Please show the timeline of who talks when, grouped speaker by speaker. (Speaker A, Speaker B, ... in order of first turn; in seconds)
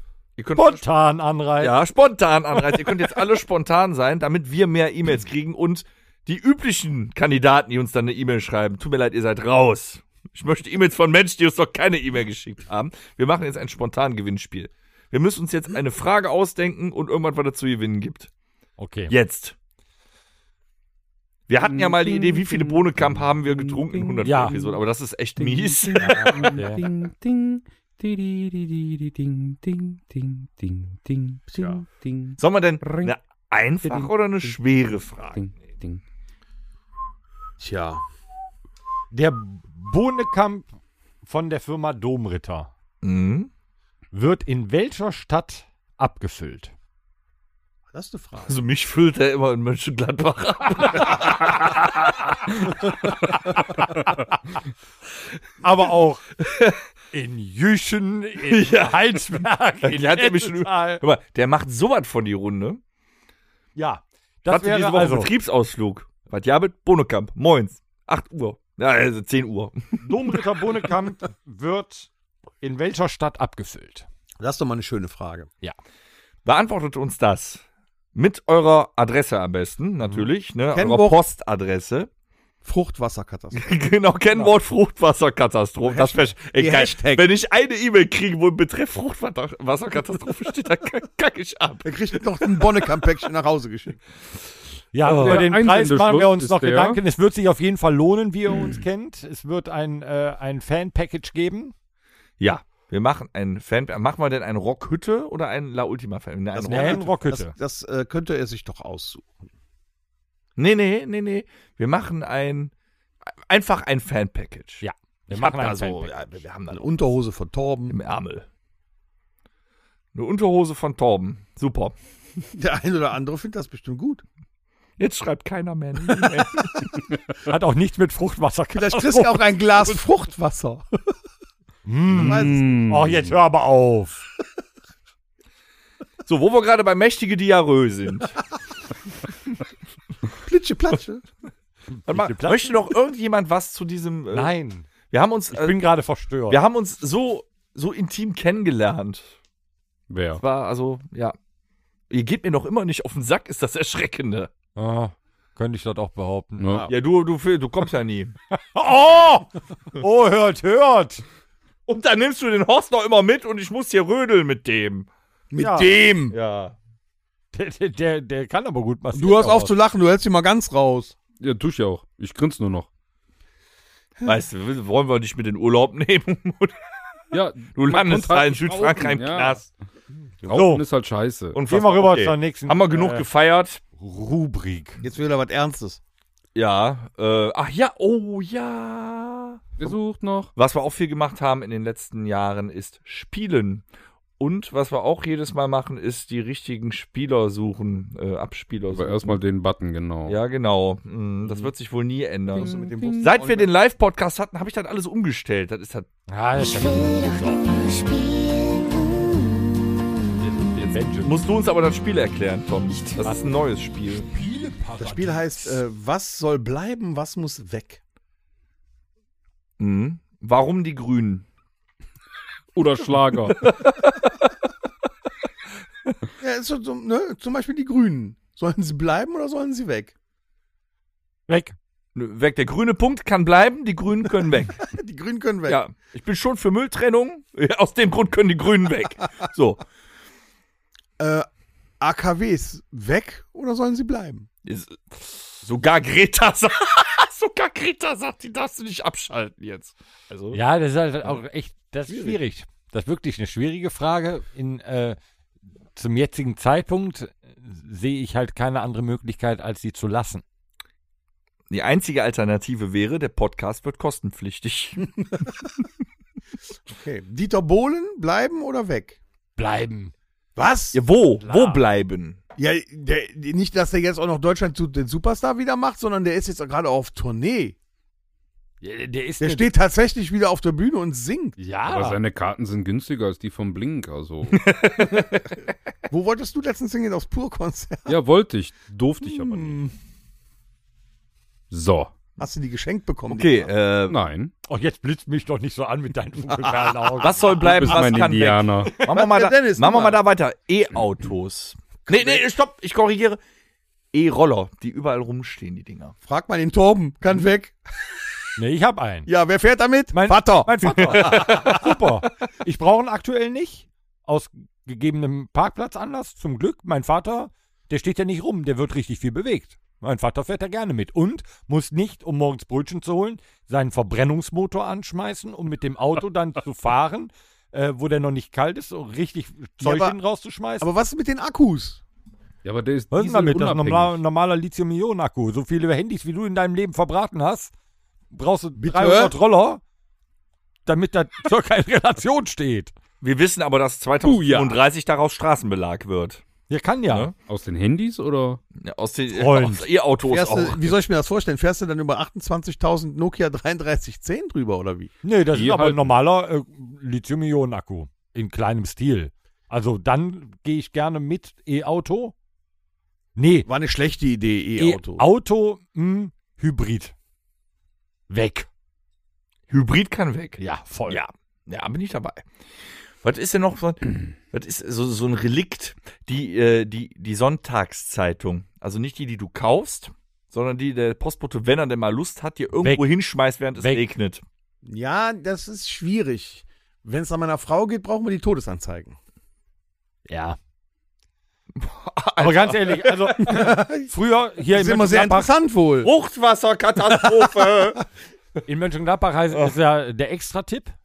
Speaker A: 0.4-0.8, 1.6-18.3, 19.1-19.6, 21.5-26.5, 32.4-35.4, 43.0-43.5, 48.5-53.6, 56.4-56.8, 58.5-62.8, 64.5-70.4, 76.5-77.6, 78.2-82.1, 83.5-93.0, 102.4-107.0, 110.6-112.7, 113.5-116.8, 117.9-118.5, 120.1-122.0, 125.0-126.7, 136.3-138.4, 142.1-144.5, 145.1-145.8, 146.5-149.3, 150.4-151.3, 152.1-154.5, 156.9-158.3, 161.9-165.1, 166.3-166.8, 174.2-176.8, 177.8-179.7, 181.5-183.8, 186.6-189.9, 190.6-193.8, 194.4-199.4, 200.3-206.1, 210.8-214.3, 219.8-221.5, 223.6-224.1, 232.2-234.8, 235.7-239.8, 244.7-250.6, 252.1-252.4, 261.7-265.1, 270.9-272.4, 284.5-285.3, 293.3-294.2, 297.2-303.4, 304.1-306.1, 311.0-311.8, 343.2-346.4, 348.8-351.0, 369.7-372.5, 373.2-384.4, 391.8-393.5, 396.0-398.0
Speaker B: 0.6-1.7, 18.8-19.1, 24.2-24.6, 26.5-26.8, 39.1-40.7, 41.2-42.7, 44.1-46.7, 55.6-56.2, 57.1-61.0, 63.8-65.3, 70.0-72.1, 72.6-74.1, 94.9-101.7, 106.7-107.5, 114.8-116.2, 127.5-129.4, 131.9-134.2, 142.0-142.7, 144.3-144.9, 145.5-146.6, 154.8-156.8, 158.5-161.2, 165.6-165.9, 167.5-169.7, 180.5-180.8, 181.7-183.3, 184.0-185.0, 206.3-207.7, 210.4-211.4, 213.2-213.5, 214.1-215.8, 231.5-231.8, 250.5-255.2, 255.9-260.4, 269.6-270.1, 271.4-271.8, 278.8-279.7, 281.6-282.2, 294.7-297.5, 308.6-309.3, 310.1-330.9, 333.1-337.7, 338.3-339.8, 340.9-342.9, 346.7-347.3, 349.3-349.9, 355.2-362.3, 363.4-363.7, 364.8-367.1, 368.3-368.7, 370.6-371.2, 383.8-384.0, 390.3-390.6, 392.4-395.5, 398.7-401.0
Speaker C: 21.6-24.8, 25.4-33.1, 33.8-36.0, 95.0-97.0, 132.2-133.4, 150.1-150.4, 156.6-156.9, 171.4-172.9, 177.3-179.7, 180.4-181.6, 189.8-190.5, 198.9-200.4, 202.5-203.3, 222.7-223.7, 281.9-284.7, 288.1-289.8, 291.7-292.1, 294.1-294.5, 297.6-298.9, 332.6-334.2, 344.2-344.8, 347.5-348.6, 355.5-356.1
Speaker D: 26.1-26.5, 31.6-31.8, 37.6-38.0, 47.9-48.6, 74.4-75.5, 80.7-81.2, 82.6-83.6, 85.8-87.2, 91.8-94.0, 106.5-109.5, 116.7-118.0, 122.5-124.2, 128.7-131.0, 132.1-132.9, 140.4-141.2, 165.5-166.4, 169.1-171.2, 185.0-186.0, 202.6-203.7, 215.0-218.0, 226.4-230.1, 234.8-235.8, 241.2-241.5, 242.0-244.5, 266.9-269.2, 270.6-271.0, 272.6-277.8, 279.4-281.6, 286.1-288.2, 289.3-289.9, 292.4-293.7, 296.5-298.3, 299.0-300.2, 302.1-302.4, 306.3-307.8, 309.3-311.8, 329.8-330.2, 330.8-332.0, 338.8-339.4, 350.3-355.1, 363.7-365.3, 384.8-389.2, 393.4-394.1, 394.7-396.1
Speaker E: 206.6-209.7, 212.9-213.2